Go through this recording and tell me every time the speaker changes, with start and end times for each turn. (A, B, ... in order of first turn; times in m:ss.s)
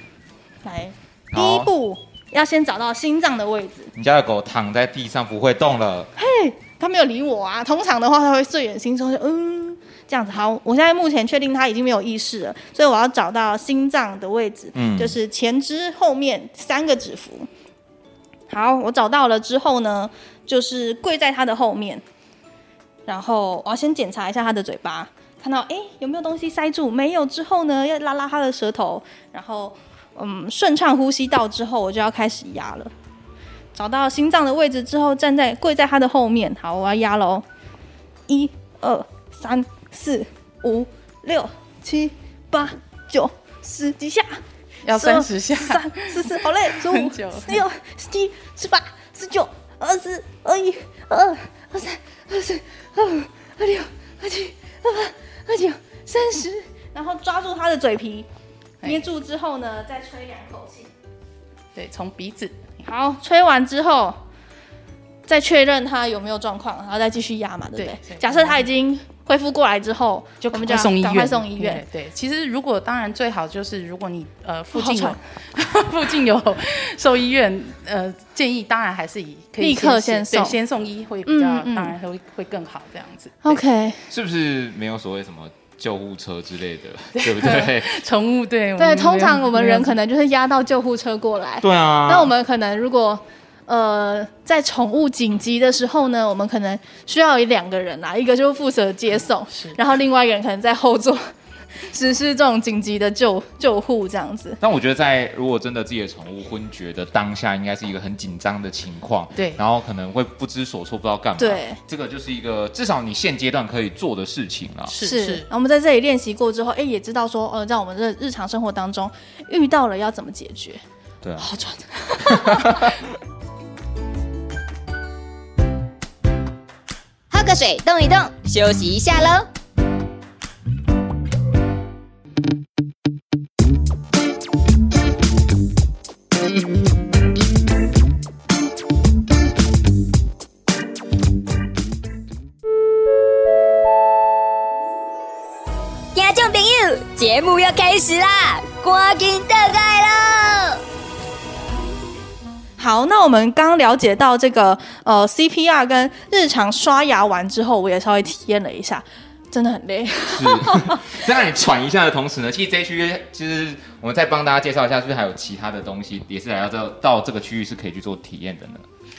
0:00.6-0:03.9 A
0:01.3-0:01.7 B
0:04.0-0:06.1 B
0:06.2-0:17.5 A
0:14.7-0:15.2 B
0:18.5-0:22.0 A
0:23.1-0:32.9 A
0:33.7-0:37.4 A
0:38.3-0:44.4 A
0:44.8-0:47.6 C
0:44.9-0:58.3 A
0:58.8-1:00.9 A
1:01.7-1:02.7 C
1:02.8-1:04.2 A
1:05.3-1:11.8 A
1:07.8-1:08.7 C
1:10.4-1:23.6 C
1:14.7-1:15.2 A
1:19.6-1:20.6 A
1:21.3-1:21.9 A
1:23.4-1:24.0 A
1:24.1-1:28.0 B
1:27.2-1:30.0 C
1:28.8-1:44.6 A
1:31.6-1:32.3 B
1:39.5-1:39.8 C
1:44.6-1:54.9 B
1:49.4-1:49.6 C
1:51.4-1:51.8 A
1:54.9-1:55.5 C
1:55.0-2:00.8 A
2:01.2-2:01.5 B
2:01.4-2:03.0 A
2:02.2-2:03.0 B
2:07.3-2:09.5 D
2:26.1-2:30.8 D
2:32.8-2:41.2 A
2:40.3-2:48.8 B